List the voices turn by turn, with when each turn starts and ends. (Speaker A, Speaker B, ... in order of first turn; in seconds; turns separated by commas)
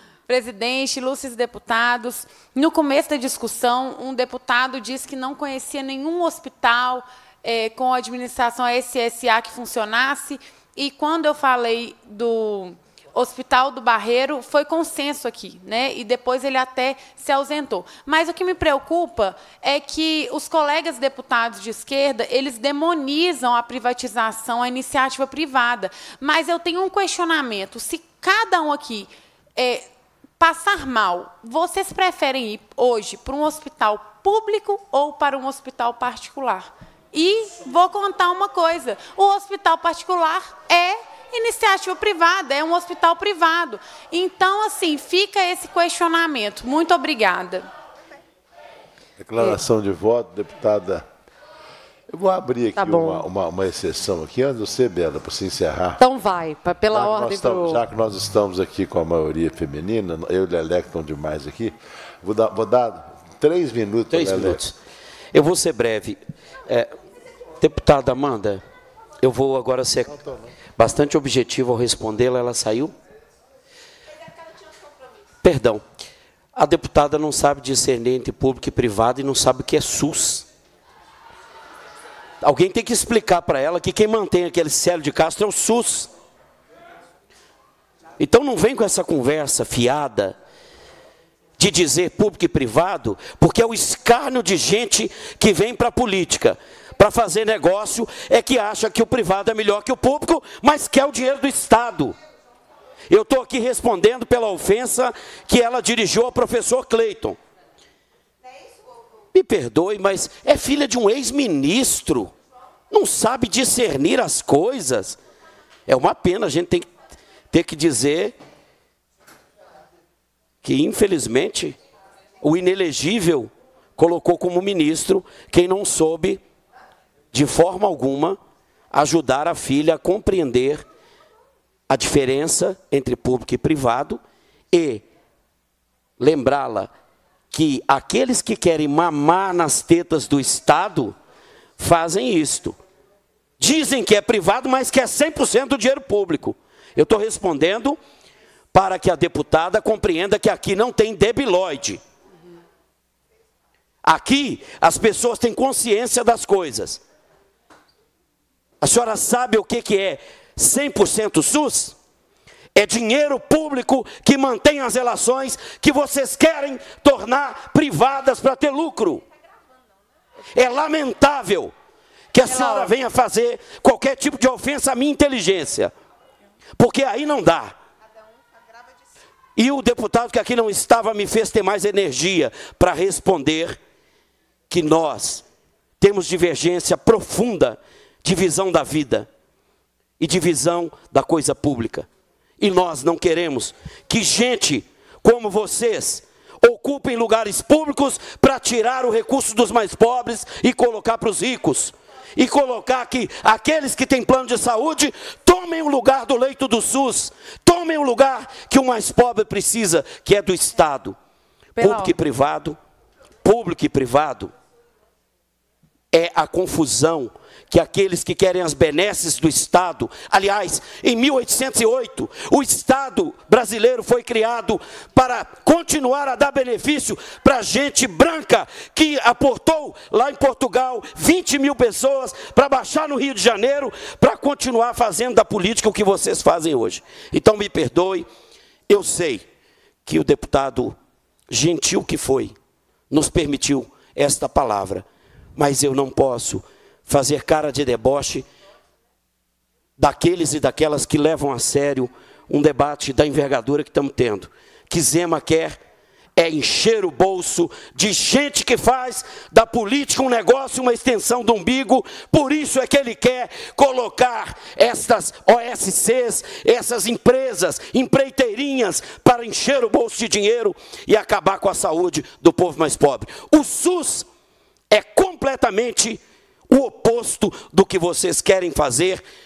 Speaker A: 0.3-29.9, Speaker A: 30.4-47.7, Speaker B: 49.2-51.0, Speaker B: 52.1-56.0, Speaker C: 52.8-53.2, Speaker C: 56.0-57.8, Speaker B: 56.9-64.6, Speaker D: 64.1-64.7, Speaker D: 65.3-66.9, Speaker D: 67.6-68.6, Speaker D: 69.2-70.2, Speaker B: 70.1-70.5, Speaker D: 70.8-72.9, Speaker D: 75.4-75.8, Speaker D: 76.5-80.5, Speaker D: 82.4-86.1, Speaker D: 88.2-90.3, Speaker D: 91.6-102.2, Speaker D: 103.1-107.4, Speaker D: 109.3-112.3, Speaker D: 112.9-115.2, Speaker D: 115.9-116.9, Speaker D: 117.5-118.3, Speaker D: 120.6-121.8, Speaker D: 122.4-126.4, Speaker D: 127.3-128.4, Speaker D: 128.9-130.8, Speaker D: 131.9-134.2, Speaker D: 134.7-135.0, Speaker D: 136.2-136.9, Speaker D: 137.5-141.1, Speaker D: 141.8-142.8, Speaker D: 143.6-148.0, Speaker D: 148.7-152.0, Speaker D: 154.0-157.0, Speaker D: 158.8-161.9, Speaker D: 162.7-169.2, Speaker D: 170.5-171.7, Speaker D: 172.3-175.9, Speaker A: 172.4-172.9, Speaker D: 176.8-177.7, Speaker D: 179.6-183.8, Speaker D: 184.7-185.4, Speaker D: 186.0-189.3, Speaker D: 190.2-192.1, Speaker D: 192.6-211.2, Speaker A: 211.8-212.1, Speaker D: 211.8-212.8, Speaker D: 213.4-214.5, Speaker D: 216.1-238.2, Speaker D: 238.9-239.4, Speaker D: 240.1-240.9, Speaker D: 241.5-242.6, Speaker D: 243.1-245.0, Speaker D: 245.6-248.5, Speaker D: 250.0-255.8, Speaker D: 256.4-274.3, Speaker D: 274.9-279.2